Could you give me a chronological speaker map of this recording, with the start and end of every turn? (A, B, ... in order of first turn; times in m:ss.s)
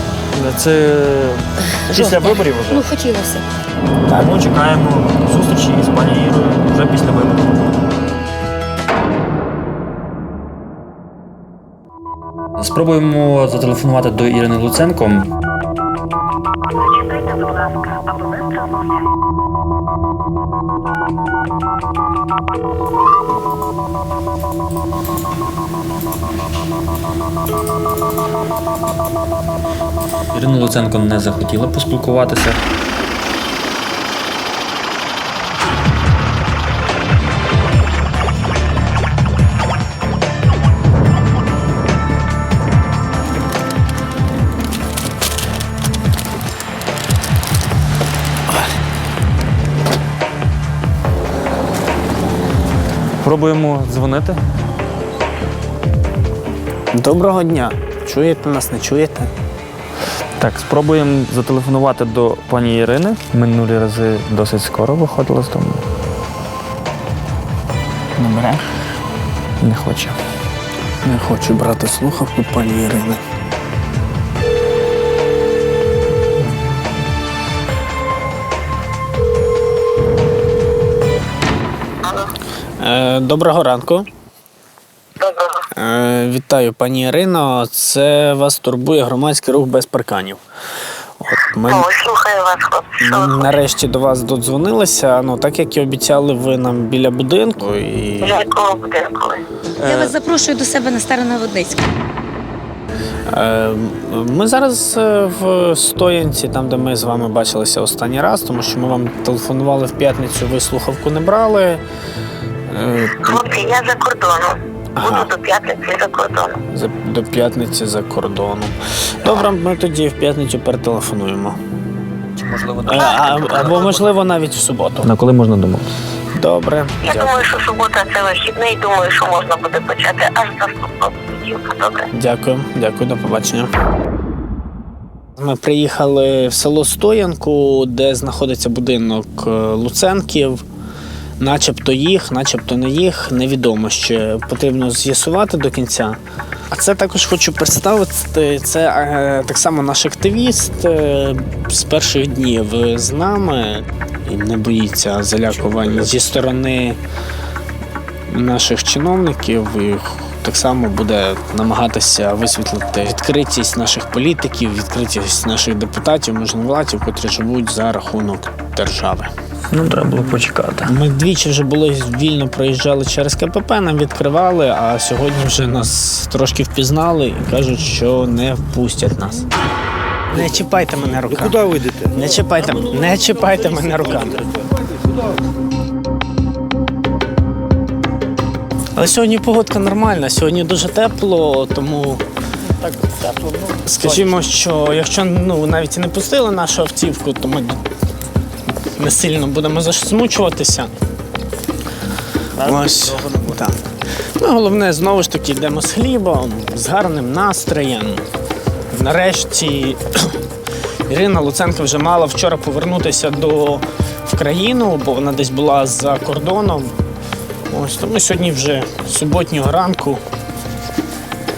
0:00.3-0:02.9 A
0:01.9-0:03.4 B
0:04.1-0:07.6 A
0:12.6-0:15.3 A
0:30.3-0:32.6 A
0:53.2-0:54.4 A
0:56.9-0:59.3 C
1:00.4-1:05.8 A
1:08.2-1:08.5 A
1:09.6-1:10.2 A
1:11.0-1:13.2 C
1:22.0-1:22.3 D
1:22.8-1:24.1 C
1:25.2-1:25.6 D
1:25.7-1:30.4 C
1:31.2-1:31.8 C
1:31.7-1:33.5 D
1:33.0-1:38.4 C
1:38.2-1:39.4 D
1:39.8-1:40.1 A
1:39.8-1:41.8 B
1:43.3-1:51.8 C
1:52.7-1:53.4 C
1:53.2-1:56.6 D
1:55.0-1:55.3 C
1:56.7-2:01.6 C
2:02.4-2:04.1 A
2:02.8-2:05.1 C
2:05.0-2:05.9 A
2:06.3-2:07.4 C
2:07.0-2:12.1 D
2:12.1-2:13.7 C
2:15.4-2:20.6 C
2:21.4-2:26.2 C
2:26.7-2:37.0 C
2:35.4-2:36.2 E
2:38.3-2:49.3 C
2:49.7-2:50.9 A
2:50.8-2:59.5 C
3:00.3-3:01.6 C
3:00.3-3:02.4 E
3:02.1-3:04.4 C
3:02.7-3:04.4 A
3:08.9-3:12.2 C
3:12.8-3:14.4 A
3:13.8-3:17.8 C
3:19.0-3:20.9 C
3:22.6-3:23.6 A
3:22.6-3:23.8 C
3:24.4-3:28.2 C
3:28.9-3:30.4 C
3:31.1-3:36.9 C
3:37.7-3:40.2 C